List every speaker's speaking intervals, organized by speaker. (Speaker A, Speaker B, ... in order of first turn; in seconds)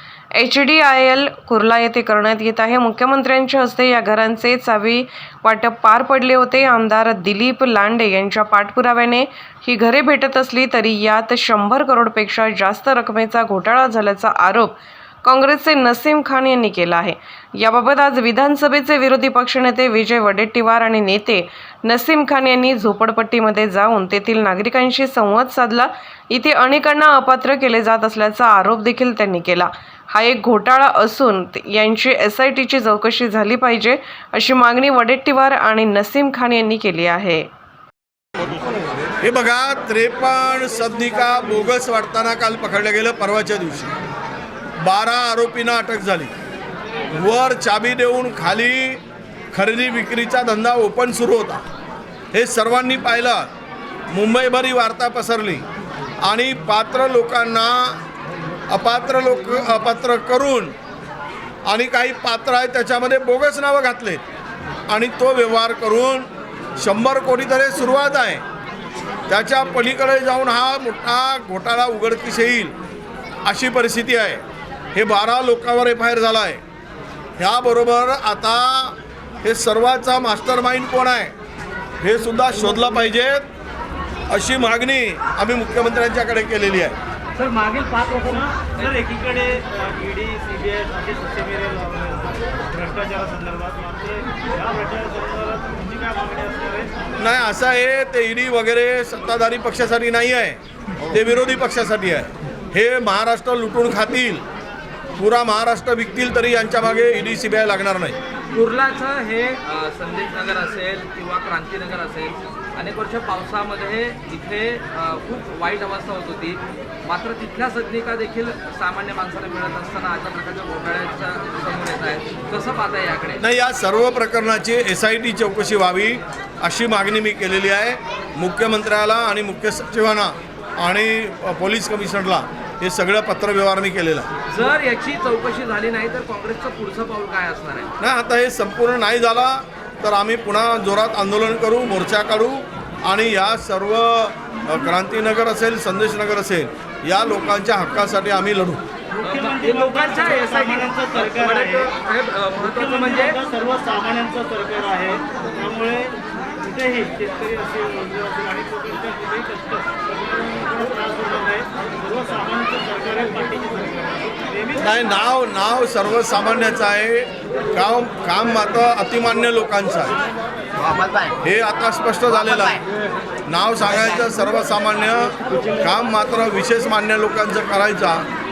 Speaker A: 0.4-37.5
Speaker B: 39.2-43.9, 44.8-46.3, 47.1-49.0, 49.5-51.6, 52.3-53.5, 54.1-55.6, 56.2-58.0, 58.7-60.7, 61.6-64.2, 64.9-68.4, 69.3-72.8, 73.4-74.4, 74.9-76.6, 77.4-81.3, 82.0-83.4, 84.3-87.0, 97.2-104.4, 105.2-108.2, 123.4-134.3, 138.0-148.8, 164.8-170.2, 171.4-172.8, 173.5-178.2
Speaker C: 87.3-96.9, 149.2-152.0, 152.6-164.9
Speaker D: 108.5-123.4, 134.5-137.9, 149.2-153.4